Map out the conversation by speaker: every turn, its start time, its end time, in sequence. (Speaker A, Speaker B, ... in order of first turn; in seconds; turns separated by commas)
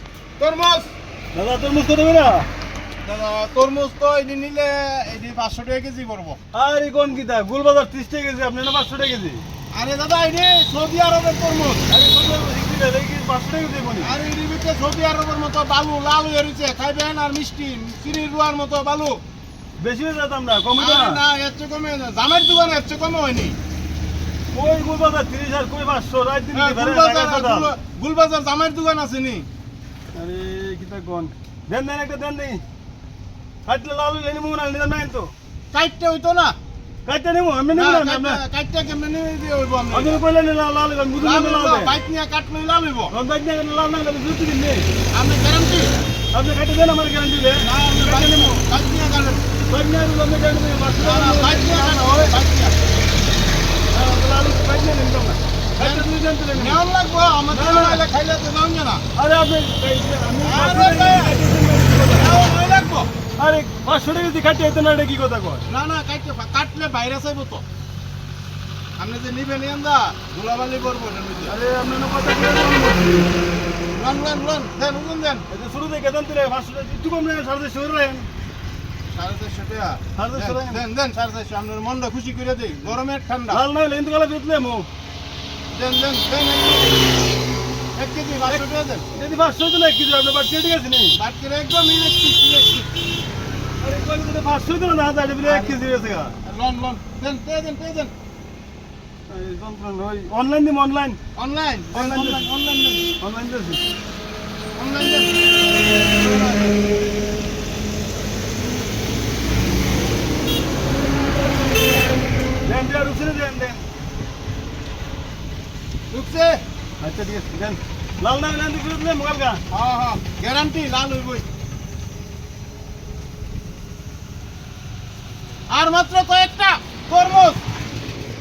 Speaker A: 0.4-0.9, Speaker B: 1.3-2.5, Speaker A: 3.0-6.4, Speaker B: 6.5-9.4, Speaker A: 9.7-11.9, Speaker B: 11.9-14.1, Speaker A: 14.0-19.2, Speaker B: 19.8-21.2, Speaker A: 20.8-23.6, Speaker B: 24.5-27.7, Speaker A: 26.5-29.4, Speaker B: 30.1-32.6, Speaker B: 33.6-35.3, Speaker A: 35.7-36.5, Speaker B: 37.0-38.4, Speaker A: 37.7-40.2, Speaker B: 39.9-41.9, Speaker A: 41.2-43.1, Speaker B: 43.1-44.9, Speaker A: 45.1-45.9, Speaker B: 46.3-48.6, Speaker A: 47.6-49.4, Speaker B: 49.7-52.3, Speaker A: 51.0-52.7, Speaker B: 53.9-56.8, Speaker A: 55.8-59.0, Speaker B: 57.5-58.0, Speaker B: 59.1-62.4, Speaker A: 60.4-61.4, Speaker A: 62.1-63.1, Speaker B: 63.4-65.6, Speaker A: 65.7-67.6, Speaker A: 69.0-71.5, Speaker B: 71.5-73.3, Speaker A: 73.9-75.4, Speaker B: 75.5-78.3, Speaker A: 79.1-83.6, Speaker B: 80.2-80.8, Speaker B: 83.5-84.9, Speaker A: 85.7-87.0, Speaker A: 88.0-89.0, Speaker B: 88.5-91.2, Speaker A: 91.1-92.9, Speaker B: 93.8-96.3, Speaker A: 95.4-95.8, Speaker A: 96.4-98.1, Speaker B: 99.3-101.2, Speaker A: 101.3-103.1, Speaker B: 101.9-102.4, Speaker B: 103.2-103.8, Speaker A: 104.7-106.8, Speaker B: 112.7-113.8, Speaker A: 116.1-116.6, Speaker B: 117.0-119.6, Speaker A: 119.7-121.4, Speaker A: 125.7-127.6